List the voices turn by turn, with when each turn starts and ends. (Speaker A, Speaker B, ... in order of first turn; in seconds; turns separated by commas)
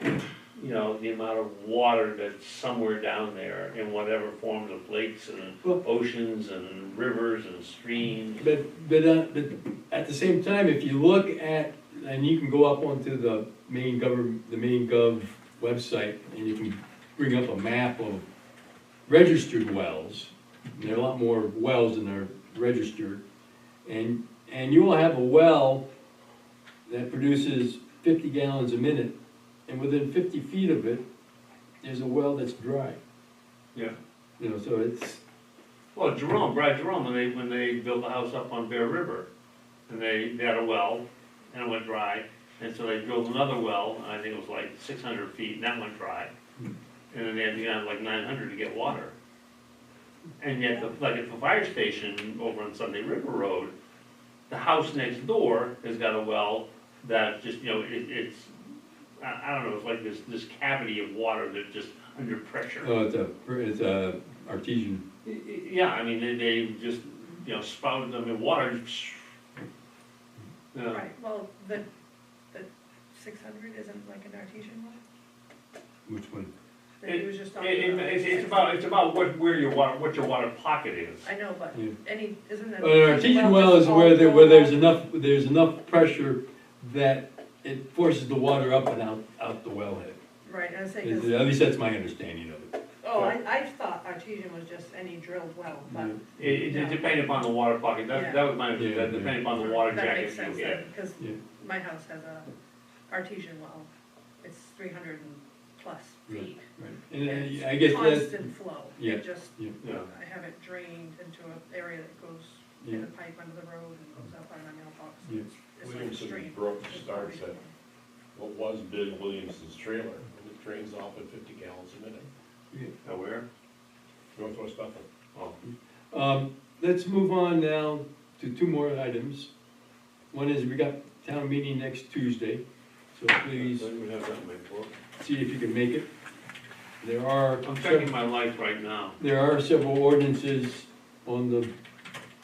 Speaker A: 0.5-8.5, Speaker B: 8.4-18.2, Speaker B: 19.1-23.2, Speaker B: 23.8-25.8, Speaker B: 26.9-29.1, Speaker B: 29.7-31.0, Speaker B: 31.8-33.0, Speaker B: 34.4-35.2, Speaker A: 35.9-39.3, Speaker A: 39.9-46.3, Speaker A: 47.1-49.1, Speaker A: 50.4-53.7, Speaker A: 54.5-58.5, Speaker A: 59.2-62.9, Speaker B: 62.8-65.0, Speaker A: 65.2-69.2, Speaker A: 70.7-71.1, Speaker C: 70.9-71.8, Speaker C: 72.5-75.0, Speaker B: 76.0-76.5, Speaker C: 77.0-78.8, Speaker A: 77.0-81.3, Speaker C: 81.2-84.8, Speaker B: 82.8-90.2, Speaker C: 90.4-91.5, Speaker B: 91.0-92.7, Speaker C: 93.0-97.3, Speaker B: 95.9-96.6, Speaker A: 96.3-100.8, Speaker C: 98.1-98.4, Speaker B: 98.7-99.4, Speaker C: 99.5-102.5, Speaker C: 103.1-103.9, Speaker C: 104.4-106.6, Speaker B: 106.3-109.7, Speaker C: 107.2-117.7, Speaker A: 109.8-110.1, Speaker B: 112.8-113.0, Speaker D: 115.8-117.6, Speaker D: 118.3-122.3, Speaker A: 123.0-123.4, Speaker D: 124.3-125.0, Speaker B: 125.6-129.5, Speaker B: 130.3-132.6, Speaker B: 133.1-133.9, Speaker A: 133.5-134.9, Speaker B: 135.2-136.1, Speaker B: 137.0-138.1, Speaker A: 137.6-139.2, Speaker B: 139.2-141.7